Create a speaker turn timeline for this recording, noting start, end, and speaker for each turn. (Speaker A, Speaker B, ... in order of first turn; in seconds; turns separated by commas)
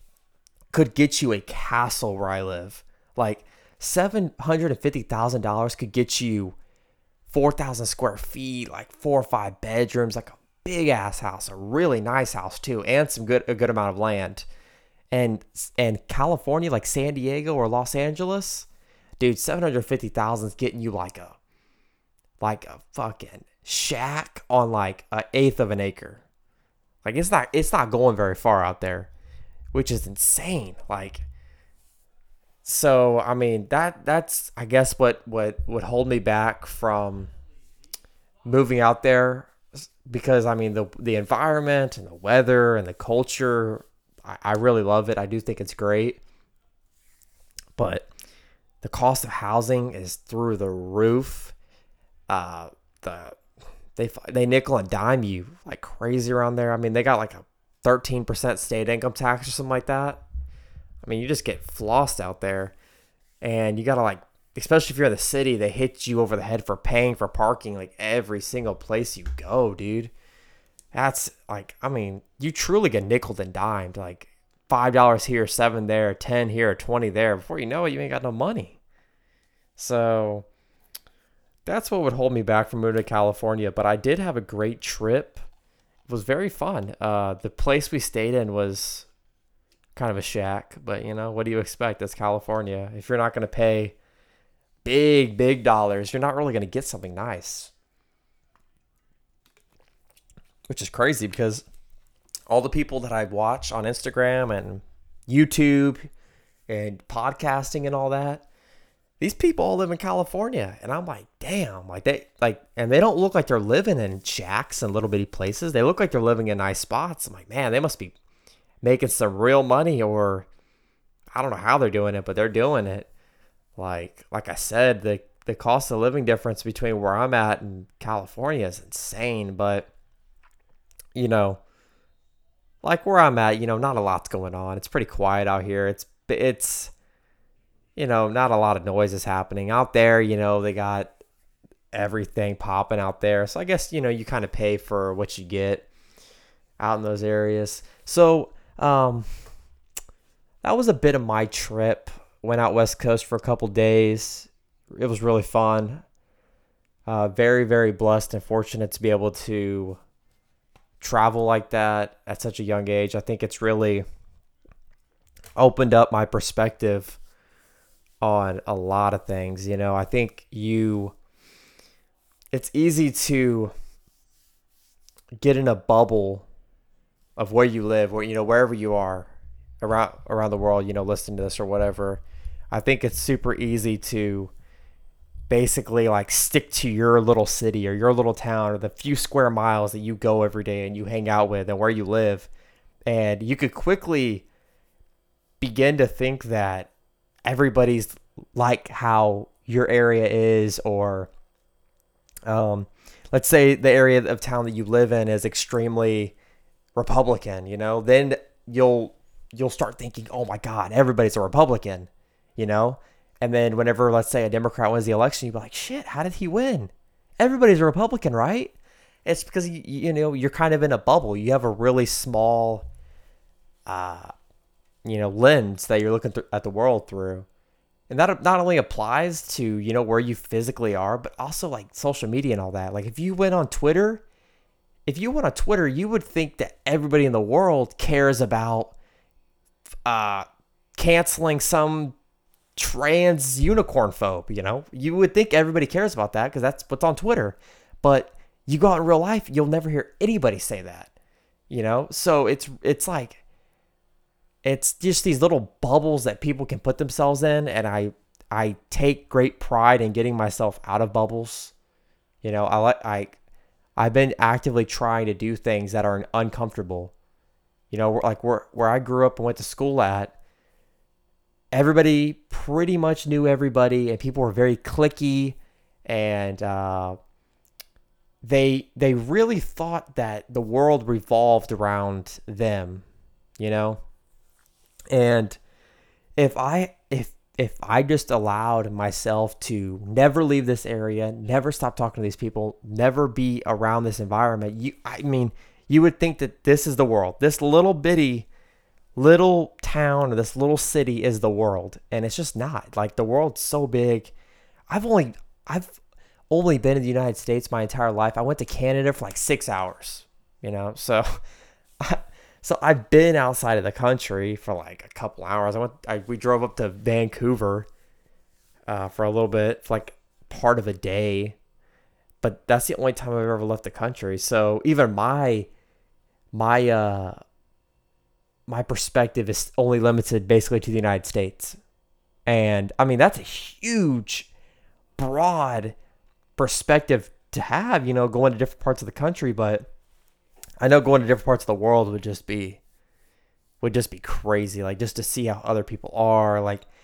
Speaker A: 0.7-6.5, Speaker A: 7.3-14.4, Speaker A: 15.1-18.7, Speaker A: 19.2-21.4, Speaker A: 22.4-26.2, Speaker A: 27.0-29.1, Speaker A: 29.7-31.2, Speaker A: 32.6-37.3, Speaker A: 38.4-46.2, Speaker A: 47.8-48.1, Speaker A: 48.8-51.5, Speaker A: 52.3-53.4, Speaker A: 54.0-60.2, Speaker A: 61.0-62.7, Speaker A: 63.4-70.1, Speaker A: 70.9-78.8, Speaker A: 79.8-80.5, Speaker A: 81.7-85.4, Speaker A: 86.1-89.1, Speaker A: 90.0-94.0, Speaker A: 94.8-97.7, Speaker A: 100.7-101.7, Speaker A: 102.5-106.1, Speaker A: 106.7-108.5, Speaker A: 109.2-118.1, Speaker A: 118.8-120.5, Speaker A: 121.3-123.1, Speaker A: 123.8-129.9, Speaker A: 131.1-131.6, Speaker A: 132.8-136.9, Speaker A: 137.9-141.1, Speaker A: 141.9-145.9, Speaker A: 146.8-149.2, Speaker A: 150.6-156.0, Speaker A: 157.1-160.0, Speaker A: 161.0-164.0, Speaker A: 165.6-167.2, Speaker A: 168.2-171.1, Speaker A: 172.5-173.7, Speaker A: 175.4-176.4, Speaker A: 177.4-179.3, Speaker A: 179.8-184.5, Speaker A: 185.5-192.5, Speaker A: 193.1-194.4, Speaker A: 195.6-196.9, Speaker A: 197.4-201.3, Speaker A: 202.5-206.3, Speaker A: 206.9-218.7, Speaker A: 219.2-222.8, Speaker A: 223.9-224.3, Speaker A: 225.0-227.4, Speaker A: 228.1-234.2, Speaker A: 235.1-238.9, Speaker A: 240.1-240.4, Speaker A: 241.0-242.2, Speaker A: 242.8-251.1, Speaker A: 251.7-253.4, Speaker A: 254.6-261.7, Speaker A: 262.4-263.4, Speaker A: 264.0-267.1, Speaker A: 267.9-270.3, Speaker A: 271.7-277.2, Speaker A: 278.4-283.0, Speaker A: 283.6-284.0, Speaker A: 285.1-285.6, Speaker A: 286.4-298.5, Speaker A: 299.1-304.3, Speaker A: 304.9-305.9, Speaker A: 306.5-311.4, Speaker A: 312.0-317.9, Speaker A: 318.9-321.6, Speaker A: 322.4-325.7, Speaker A: 326.5-327.4, Speaker A: 328.7-331.8, Speaker A: 332.4-334.5, Speaker A: 335.2-335.9, Speaker A: 336.6-339.9, Speaker A: 340.8-342.8, Speaker A: 343.8-346.9